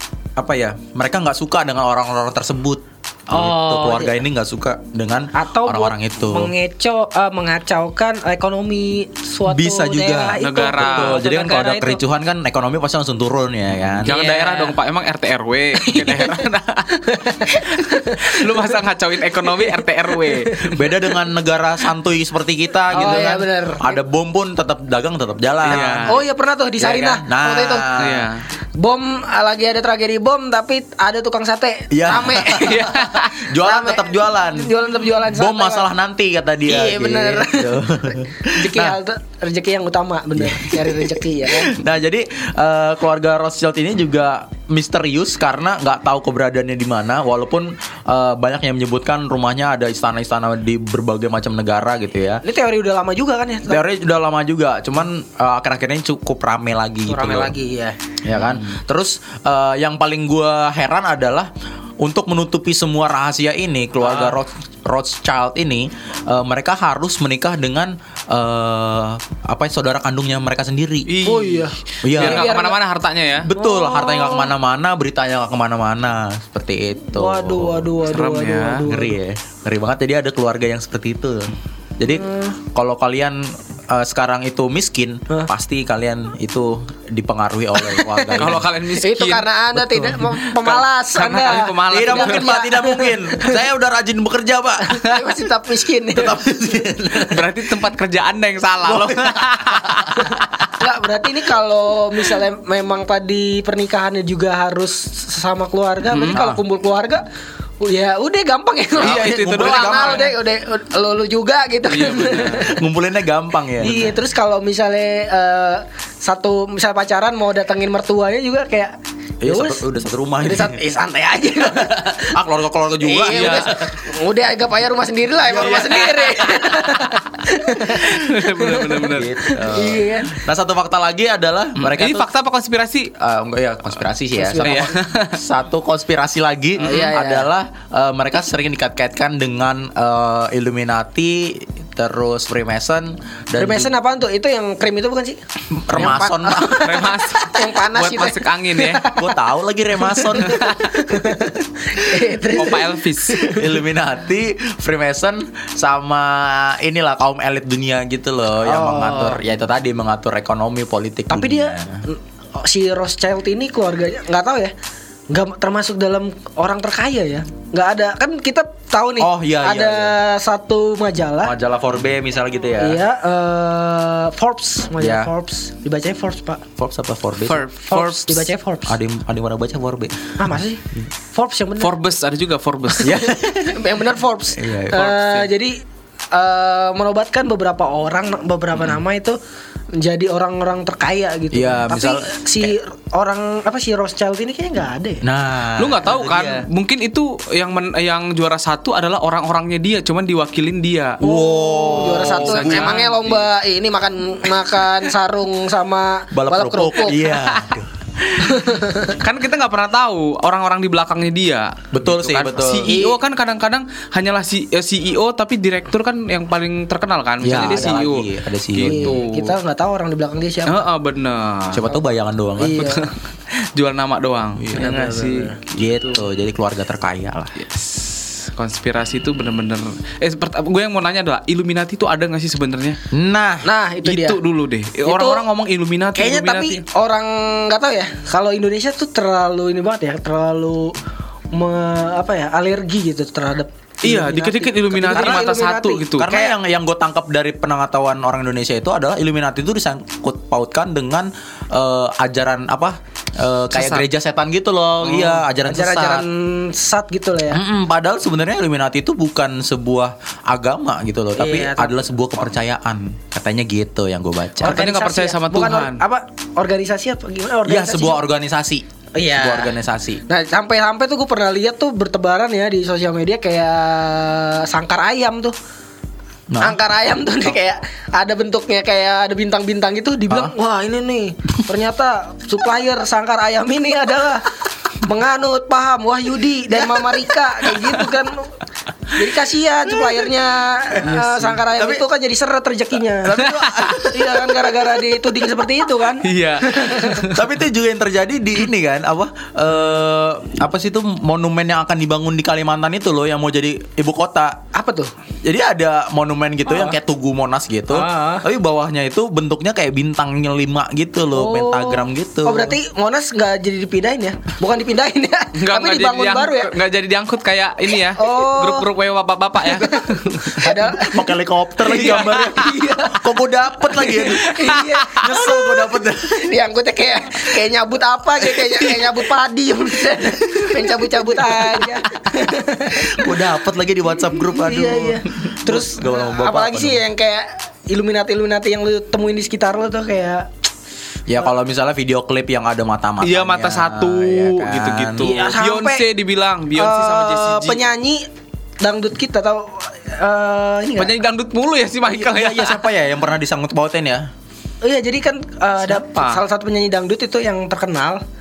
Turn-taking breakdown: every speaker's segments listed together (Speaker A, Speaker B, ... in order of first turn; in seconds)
Speaker A: 0.4-6.5, 9.4-14.1, 20.8-26.2, 26.8-28.3, 31.9-34.7, 35.3-39.0, 40.4-52.4, 53.7-57.5, 58.2-61.5, 62.0-71.2, 72.0-72.6, 73.4-78.0, 78.9-88.7, 91.9-95.0, 96.1-97.6, 98.8-100.3, 106.3-106.6, 109.0-110.3, 112.6-114.1, 119.4-120.8, 121.6-123.8, 129.1-132.3, 133.2-143.9, 145.7-146.9, 149.2-150.8, 153.5-162.0, 169.2-170.2, 171.4-173.0, 175.0-175.3, 176.8-177.6, 178.9-181.0, 183.0-183.9, 184.5-185.2, 191.5-192.7, 195.2-196.7, 201.2-203.0, 206.3-208.6, 211.9-213.0, 217.4-219.2, 221.7-222.8, 224.6-224.9, 225.8-227.6, 233.1-233.7, 245.0-245.5, 246.2-256.2, 257.5-264.9, 267.7-270.2, 276.5-276.8, 290.9-292.0, 293.2-294.8, 297.3-304.6, 305.4-312.8, 320.7-326.4, 328.6-328.8, 332.9-337.0, 341.3-345.4, 352.1-354.3
Speaker B: 3.3-4.2, 5.3-12.0, 14.0-14.7, 15.8-18.8, 19.4-20.8, 22.9-23.9, 25.7-27.9, 28.8-32.9, 33.6-35.9, 36.6-41.8, 52.4-53.8, 57.1-58.0, 64.0-64.3, 71.2-72.8, 73.5-74.5, 77.1-79.2, 82.1-82.6, 87.8-93.6, 94.8-96.4, 100.2-107.2, 107.8-112.8, 113.8-118.9, 119.5-119.8, 120.4-122.3, 123.0-130.4, 134.4-134.9, 136.8-137.5, 143.6-149.3, 150.0-153.7, 158.6-159.4, 161.3-164.7, 165.3-171.5, 172.8-176.6, 177.9-179.0, 180.4-181.9, 183.0-185.8, 186.3-189.4, 189.9-195.2, 201.2-207.3, 208.4-209.2, 212.9-213.2, 217.7-217.9, 218.8-220.9, 222.6-223.1, 224.7-225.6, 233.6-234.4, 235.0-235.4, 236.1-240.9, 241.5-246.4, 255.0-257.6, 261.4-262.0, 264.6-268.2, 269.1-269.8, 270.3-275.5, 276.6-288.6, 289.1-293.4, 294.0-297.2, 304.7-305.1, 306.7-307.0, 307.9-308.4, 311.3-316.7, 318.1-318.9, 319.6-321.2, 322.0-323.2, 324.1-333.4, 334.4-340.5, 345.2-346.1, 346.7-348.2, 348.8-351.1, 354.8-358.2
Speaker C: 10.4-11.2, 14.0-20.8, 25.6-26.2, 27.9-28.4, 32.6-33.4, 71.1-73.5, 78.1-78.9, 88.3-92.6, 97.2-100.3, 106.1-106.4, 109.0-110.3, 111.9-112.7, 123.3-123.7, 125.5-127.2, 127.8-129.3, 131.8-133.1, 134.6-135.4, 136.8-137.1, 146.7-149.1, 152.5-153.5, 177.4-178.5, 181.8-183.2, 185.1-185.4, 195.8-201.2, 202.0-203.5, 207.3-207.7, 209.2-219.6, 220.7-221.8, 222.8-226.2, 227.6-233.0, 234.0-236.8, 244.0-246.3, 253.7-254.0, 264.6-266.0, 293.4-294.0, 296.2-297.5, 315.6-320.4, 321.8-322.6, 324.1-325.2, 343.2-347.8, 351.0-352.8, 355.8-356.4